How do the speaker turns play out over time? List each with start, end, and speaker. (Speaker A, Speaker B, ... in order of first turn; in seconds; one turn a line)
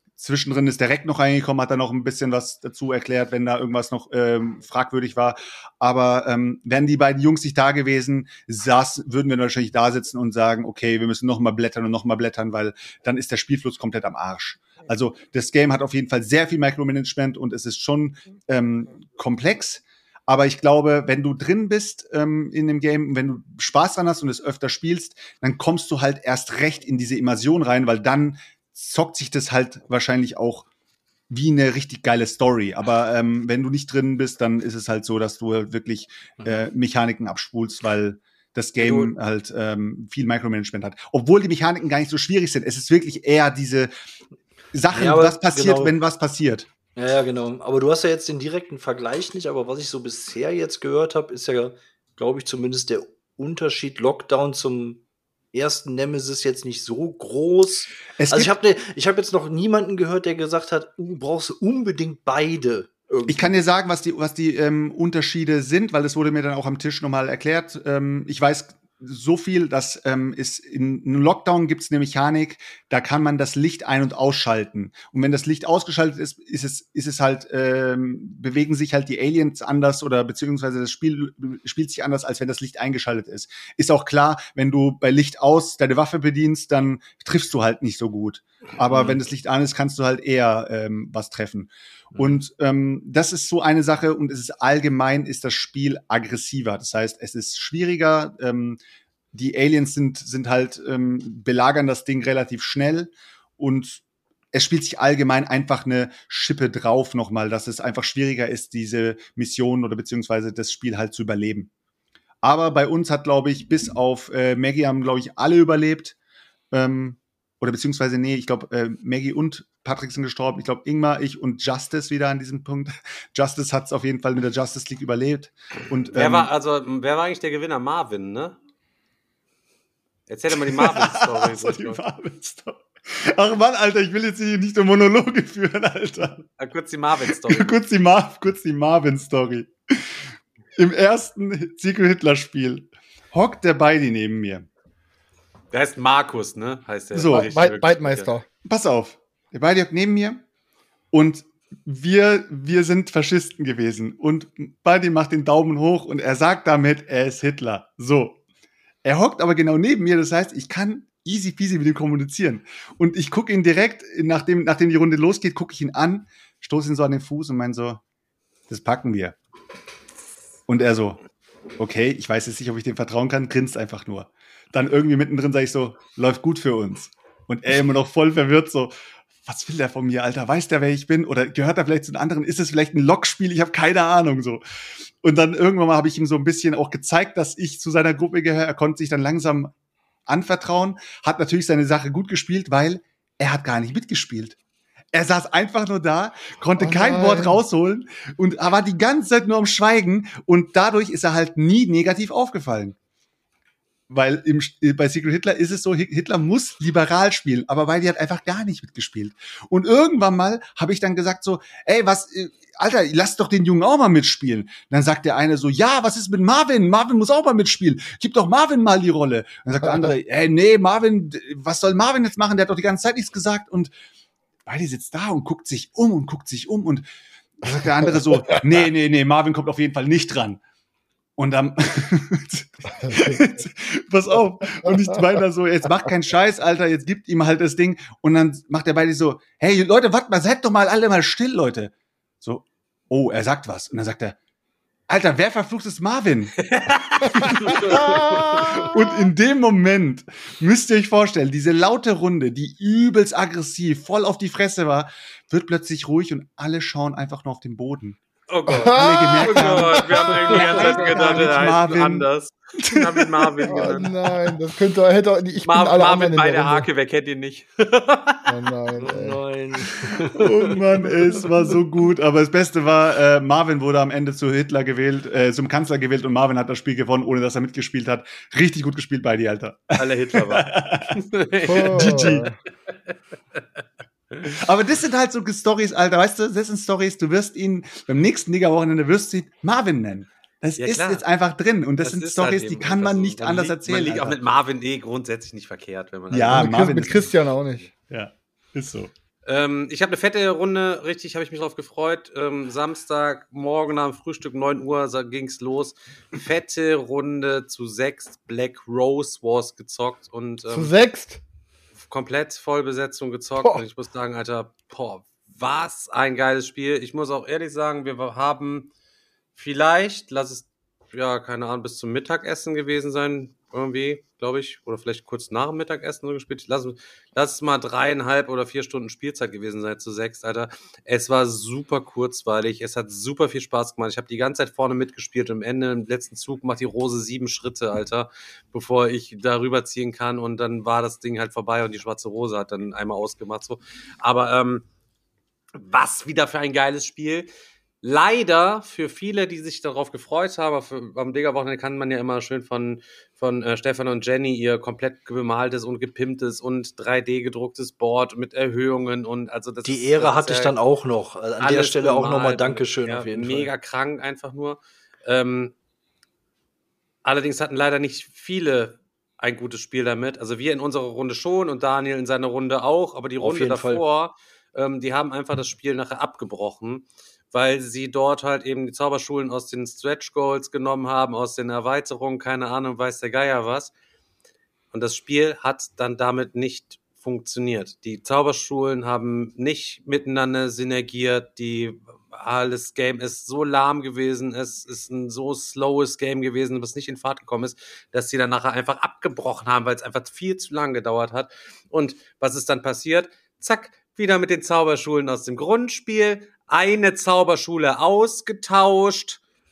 Speaker A: 0.2-30.7
Speaker A: 31.3-43.9
Speaker B: 38.8-39.1
Speaker A: 44.7-46.7
Speaker B: 44.9-45.9
Speaker B: 47.0-55.0
Speaker B: 55.5-63.6
Speaker A: 58.2-58.5
Speaker A: 63.3-98.8
Speaker B: 88.9-89.2
Speaker A: 99.3-104.0
Speaker A: 104.5-111.7
Speaker A: 112.4-116.2
Speaker A: 116.7-126.5
Speaker C: 126.1-128.6
Speaker C: 130.3-132.0
Speaker A: 130.5-136.4
Speaker C: 136.6-137.8
Speaker A: 137.3-140.2
Speaker A: 140.8-144.7
Speaker C: 145.7-148.3
Speaker A: 147.1-147.5
Speaker D: 147.2-148.4
Speaker A: 148.6-150.4
Speaker A: 151.1-158.4
Speaker A: 159.0-168.0
Speaker A: 168.7-169.3
Speaker A: 170.7-171.2
Speaker A: 171.8-178.9
Speaker A: 179.4-184.6
Speaker A: 185.2-189.7
Speaker A: 190.3-194.6
Speaker A: 195.1-202.9
Speaker D: 196.8-197.6
Speaker A: 204.1-223.9
Speaker A: 224.7-227.1
Speaker A: 227.6-230.6
Speaker D: 228.1-228.4
Speaker A: 231.4-244.3
Speaker D: 233.0-233.3
Speaker D: 234.8-235.3
Speaker A: 245.1-246.6
Speaker C: 246.7-247.8
Speaker D: 247.3-249.1
Speaker A: 247.3-258.2
Speaker C: 258.5-264.1
Speaker D: 258.7-261.7
Speaker A: 258.9-262.3
Speaker A: 262.8-263.9
Speaker D: 263.6-266.9
Speaker C: 265.6-268.5
Speaker D: 268.5-269.4
Speaker B: 269.0-271.6
Speaker A: 270.3-281.1
Speaker C: 280.0-282.4
Speaker D: 281.6-282.5
Speaker A: 281.7-282.5
Speaker A: 284.5-294.4
Speaker C: 290.8-291.2
Speaker C: 292.0-297.9
Speaker A: 296.3-297.3
Speaker D: 296.5-297.9
Speaker A: 298.1-299.1
Speaker C: 299.4-310.9
Speaker D: 310.7-311.4
Speaker C: 312.1-318.9
Speaker C: 319.5-344.8
Speaker C: 345.7-347.5
Speaker C: 348.0-360.8
Speaker B: 359.8-363.7
Speaker C: 361.6-365.7
Speaker C: 367.2-383.9
Speaker B: 373.4-374.0
Speaker C: 384.9-409.4